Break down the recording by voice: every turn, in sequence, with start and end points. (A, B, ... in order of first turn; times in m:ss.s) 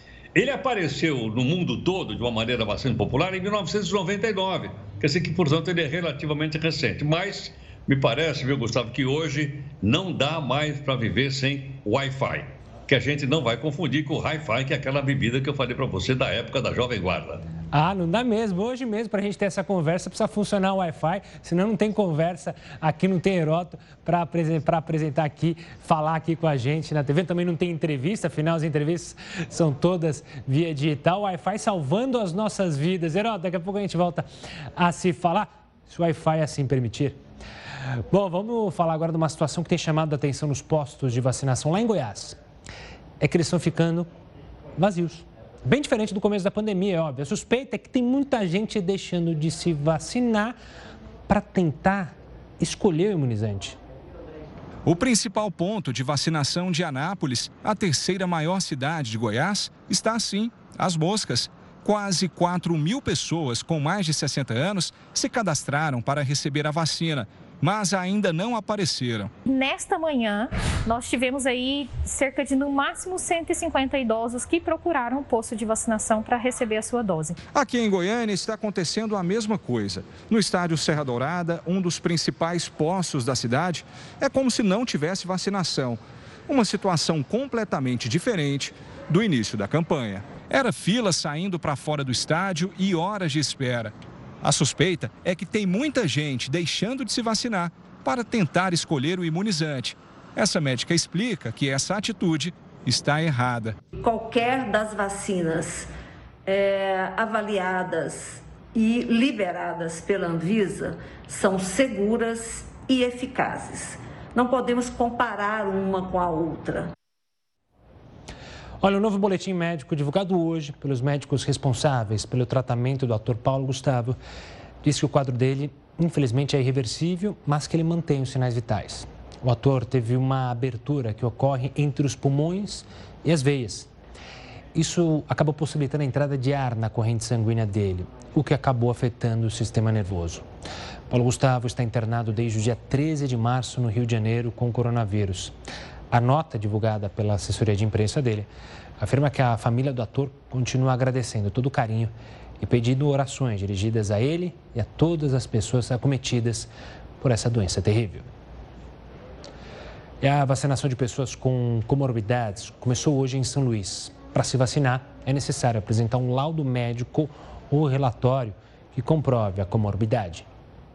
0:00.4-0:17.4 A
0:17.7-0:37.2 B
0:38.1-0:42.4 B
0:43.2-0:44.1 B
0:44.8-0:50.6 B
0:51.3-0:53.8 B
0:54.9-1:09.3 C
1:09.4-1:17.4 D
1:17.5-1:43.8 C
1:44.0-1:45.9 E
1:46.5-1:56.9 E
1:58.8-2:04.2 B
2:04.8-2:13.9 B
2:14.7-2:20.5 B
2:21.1-2:25.6 B
2:26.1-2:28.5 B
2:29.0-2:36.7 B
2:37.2-2:38.3 B
2:40.2-2:50.5 B